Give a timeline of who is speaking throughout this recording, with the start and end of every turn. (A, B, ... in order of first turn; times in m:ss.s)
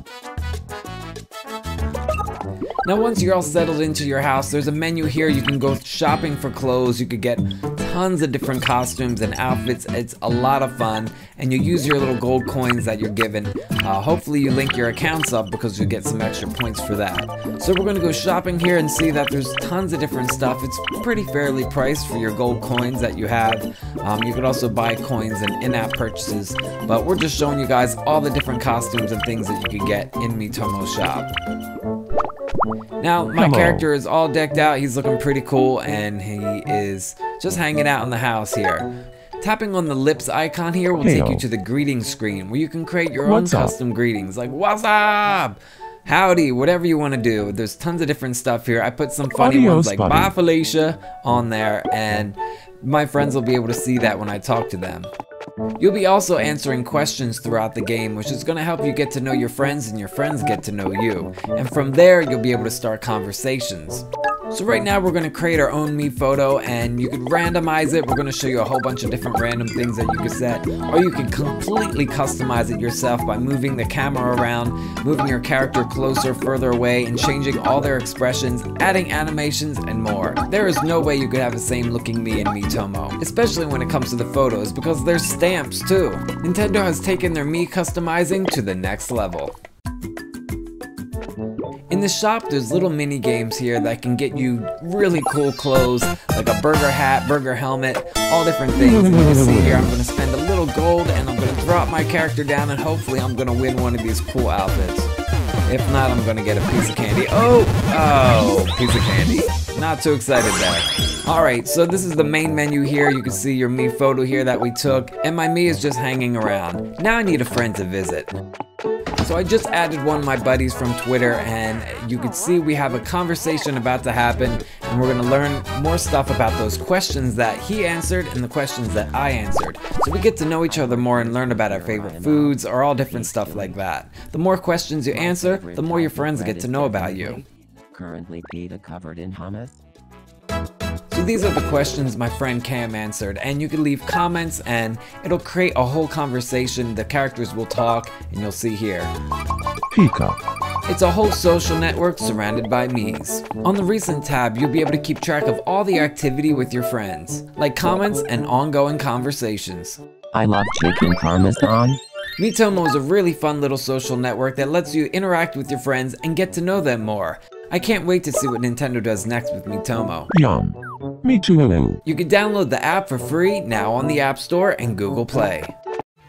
0:02.8-0:31.3 A
0:33.0-0:38.9 A
0:33.3-0:33.8 B
0:39.4-0:55.1 A
0:41.0-0:41.4 B
0:43.2-0:43.7 B
0:49.4-0:50.3 B
0:55.8-1:29.5 A
1:31.9-1:45.1 A
1:45.7-1:58.3 A
1:59.2-2:17.4 A
2:10.6-2:13.8 C
2:15.1-2:19.8 C
2:21.1-2:29.1 A
2:29.9-2:30.4 B
2:30.9-2:40.0 A
2:40.3-2:42.0 C
2:42.4-2:50.3 A
2:50.3-2:52.0 B
2:52.0-2:55.7 A